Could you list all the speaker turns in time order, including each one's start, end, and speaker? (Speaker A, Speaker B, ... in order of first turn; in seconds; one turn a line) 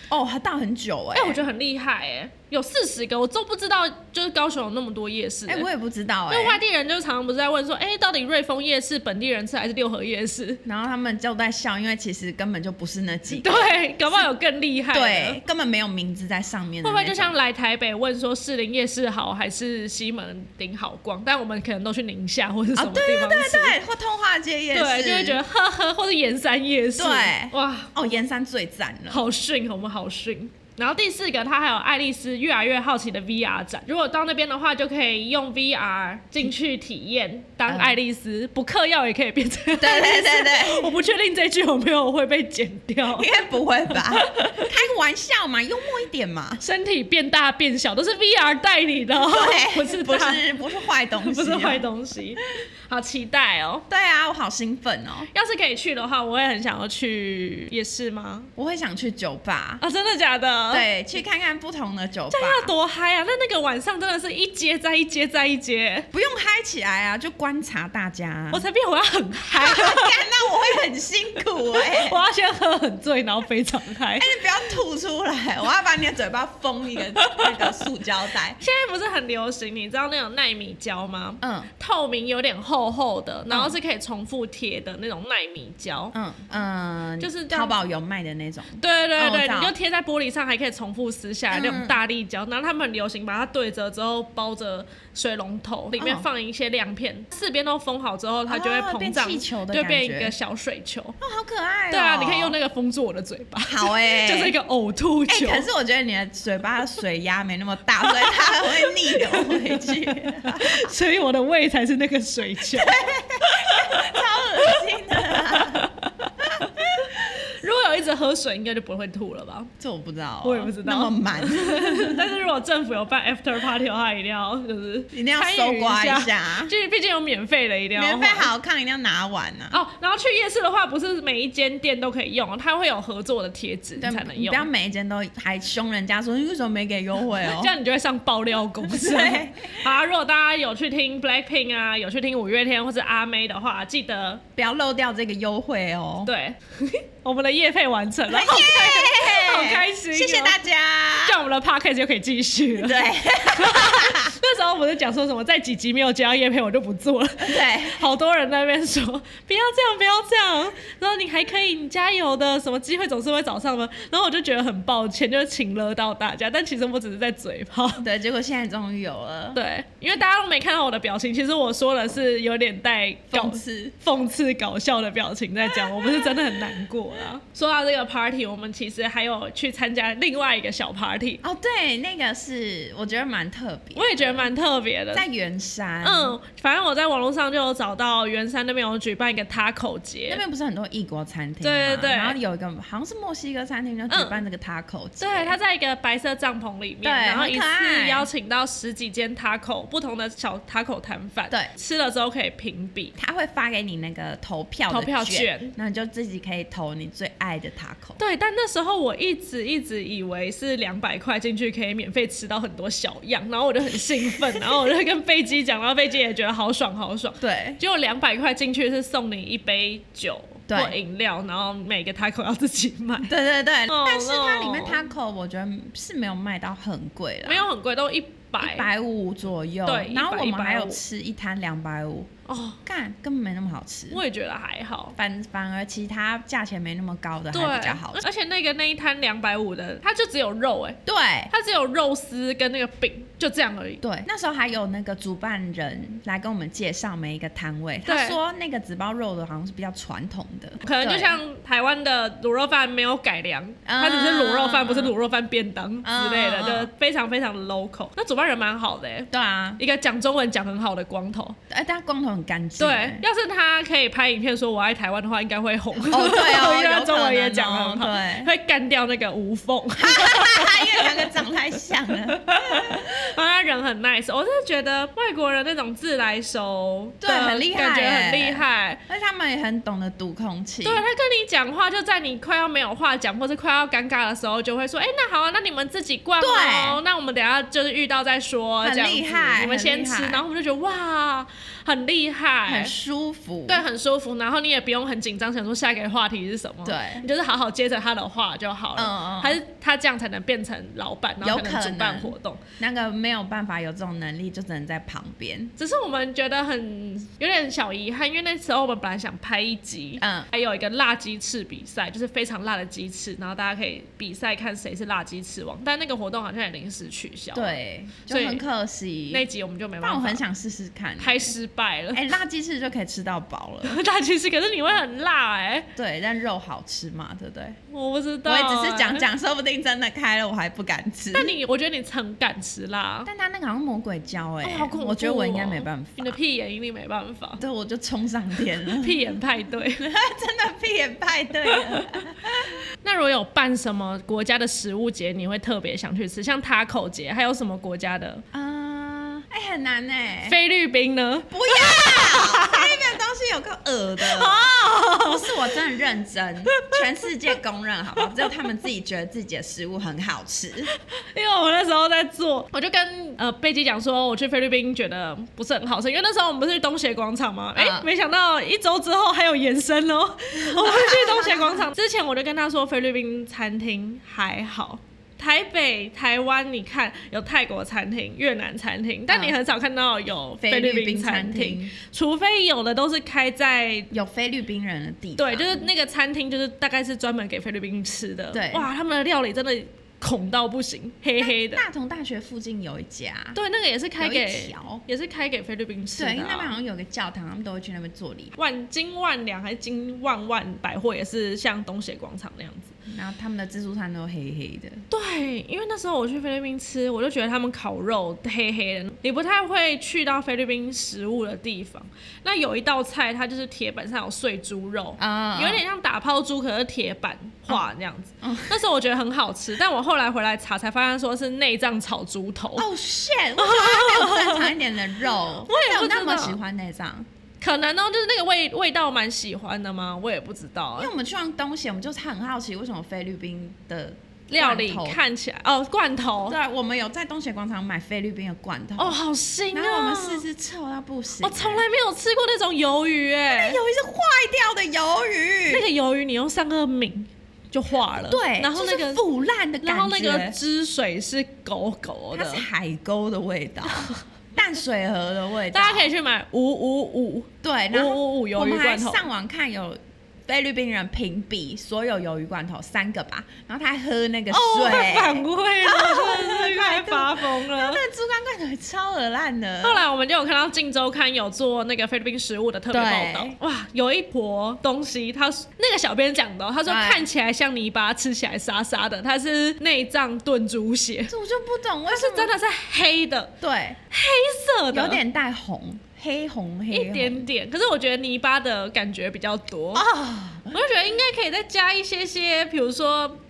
Speaker A: 0.1-1.4
Speaker B: 1.1-5.7
Speaker A: 5.5-6.6
Speaker B: 6.3-10.6
Speaker A: 10.7-14.3
Speaker B: 13.3-15.4
Speaker A: 14.9-17.3
Speaker B: 16.8-23.8
Speaker A: 22.8-25.4
Speaker B: 24.7-27.9
Speaker A: 27.0-29.2
Speaker B: 29.1-44.7
Speaker A: 37.7-38.0
Speaker A: 39.8-41.0
Speaker A: 43.1-46.6
Speaker B: 46.6-50.5
Speaker A: 49.2-51.9
Speaker B: 51.2-53.9
Speaker A: 53.9-55.3
Speaker B: 55.3-58.5
Speaker A: 58.6-59.8
Speaker B: 59.8-60.9
Speaker A: 60.7-62.7
Speaker B: 62.3-66.1
Speaker A: 66.1-68.7
Speaker B: 68.5-70.2
Speaker A: 69.5-72.2
Speaker B: 71.7-74.4
Speaker A: 74.2-78.6
Speaker B: 77.2-77.8
Speaker B: 78.6-86.1
Speaker A: 81.4-81.7
Speaker A: 83.5-83.8
Speaker A: 86.1-89.8
Speaker B: 87.2-87.8
Speaker B: 88.8-101.2
Speaker A: 91.5-92.0
Speaker A: 96.0-96.3
Speaker A: 98.5-100.3
Speaker A: 101.2-102.6
Speaker B: 101.9-105.7
Speaker A: 103.7-104.6
Speaker A: 105.3-110.9
Speaker B: 108.1-114.8
Speaker A: 112.7-115.9
Speaker B: 115.5-119.7
Speaker A: 116.4-117.4
Speaker A: 119.8-122.3
Speaker B: 120.4-128.5
Speaker A: 125.1-126.7
Speaker A: 128.0-129.8
Speaker B: 129.7-134.7
Speaker A: 134.0-137.7
Speaker B: 137.4-144.4
Speaker A: 138.8-139.9
Speaker A: 144.6-146.3
Speaker B: 146.2-150.6
Speaker A: 148.3-151.4
Speaker B: 151.2-168.1
Speaker A: 152.8-154.3
Speaker A: 157.4-158.0
Speaker A: 168.0-169.6
Speaker B: 169.6-181.4
Speaker A: 173.3-173.9
Speaker A: 175.7-176.7
Speaker A: 181.4-184.5
Speaker B: 184.0-185.2
Speaker A: 185.1-186.4
Speaker B: 186.0-190.4
Speaker A: 190.3-195.6
Speaker B: 191.6-192.4
Speaker B: 194.1-194.4
Speaker B: 195.2-203.1
Speaker A: 197.0-198.3
Speaker A: 203.2-208.2
Speaker B: 204.9-205.7
Speaker B: 208.2-223.3
Speaker A: 214.3-214.8
Speaker A: 217.4-217.8
Speaker A: 220.7-221.0
Speaker A: 223.2-227.7
Speaker B: 223.9-225.0
Speaker B: 227.4-228.9
Speaker A: 228.6-232.3
Speaker B: 229.9-231.0
Speaker B: 232.5-232.8
Speaker A: 232.8-234.2
Speaker B: 234.1-235.2
Speaker A: 235.2-238.2
Speaker B: 237.5-241.0
Speaker A: 241.1-241.5
Speaker B: 241.5-244.0
Speaker A: 244.0-251.4
Speaker B: 248.1-248.4
Speaker B: 250.8-261.6
Speaker A: 253.9-255.1
Speaker A: 256.0-256.9
Speaker A: 259.3-259.8
Speaker A: 261.7-263.2
Speaker B: 262.8-271.3
Speaker A: 266.0-268.5
Speaker A: 270.0-273.1
Speaker B: 272.3-279.0
Speaker A: 277.2-281.1
Speaker B: 280.8-292.9
Speaker A: 286.4-287.0
Speaker A: 288.8-290.4
Speaker A: 292.7-293.9
Speaker B: 293.7-302.6
Speaker A: 296.9-297.3
Speaker A: 299.0-299.6
Speaker A: 301.4-305.7
Speaker B: 305.8-317.8
Speaker A: 310.2-310.5
Speaker A: 317.5-319.4
Speaker B: 318.3-318.6
Speaker B: 319.3-320.4
Speaker A: 320.0-321.5
Speaker B: 321.2-322.3
Speaker A: 322.1-324.0
Speaker B: 323.8-325.9
Speaker A: 325.9-327.8
Speaker B: 327.9-329.3
Speaker A: 328.5-331.5
Speaker B: 331.3-333.3
Speaker A: 333.3-336.4
Speaker B: 334.6-337.6
Speaker A: 337.6-339.4
Speaker B: 339.0-340.0
Speaker A: 340.0-342.8
Speaker B: 341.7-342.1
Speaker B: 343.0-348.4
Speaker A: 348.5-350.6
Speaker B: 350.5-353.0
Speaker A: 351.5-360.9
Speaker B: 354.2-355.7
Speaker B: 356.7-357.0
Speaker B: 358.2-358.5
Speaker B: 361.1-384.1
Speaker A: 367.8-368.1
Speaker A: 370.6-371.9
Speaker A: 379.3-379.6
Speaker A: 380.6-381.9
Speaker A: 384.1-385.9
Speaker B: 385.4-391.9
Speaker A: 388.5-388.9
Speaker A: 391.4-393.6
Speaker B: 393.6-396.8
Speaker A: 394.2-395.0
Speaker A: 396.2-398.6
Speaker B: 398.6-402.9
Speaker A: 403.1-405.0
Speaker B: 405.1-422.9
Speaker A: 415.2-415.8
Speaker A: 418.4-418.8
Speaker A: 422.8-427.3
Speaker B: 423.6-424.7
Speaker B: 425.7-426.6
Speaker B: 427.6-431.1
Speaker A: 431.0-435.2
Speaker B: 434.5-436.6
Speaker A: 436.5-439.2
Speaker B: 439.0-440.4
Speaker A: 439.7-441.9
Speaker B: 441.4-443.8
Speaker A: 443.5-445.9
Speaker B: 445.7-449.2
Speaker A: 448.1-450.6
Speaker B: 449.8-452.7
Speaker A: 452.3-456.1
Speaker B: 455.7-459.2
Speaker A: 457.6-470.0
Speaker B: 464.5-468.0
Speaker B: 469.8-481.3
Speaker A: 472.9-473.6
Speaker A: 476.9-477.3
Speaker A: 481.3-482.5
Speaker B: 482.1-483.6
Speaker A: 483.6-484.0
Speaker B: 484.1-485.2
Speaker A: 484.9-487.5
Speaker B: 486.9-490.1
Speaker A: 489.9-490.8
Speaker B: 490.7-493.4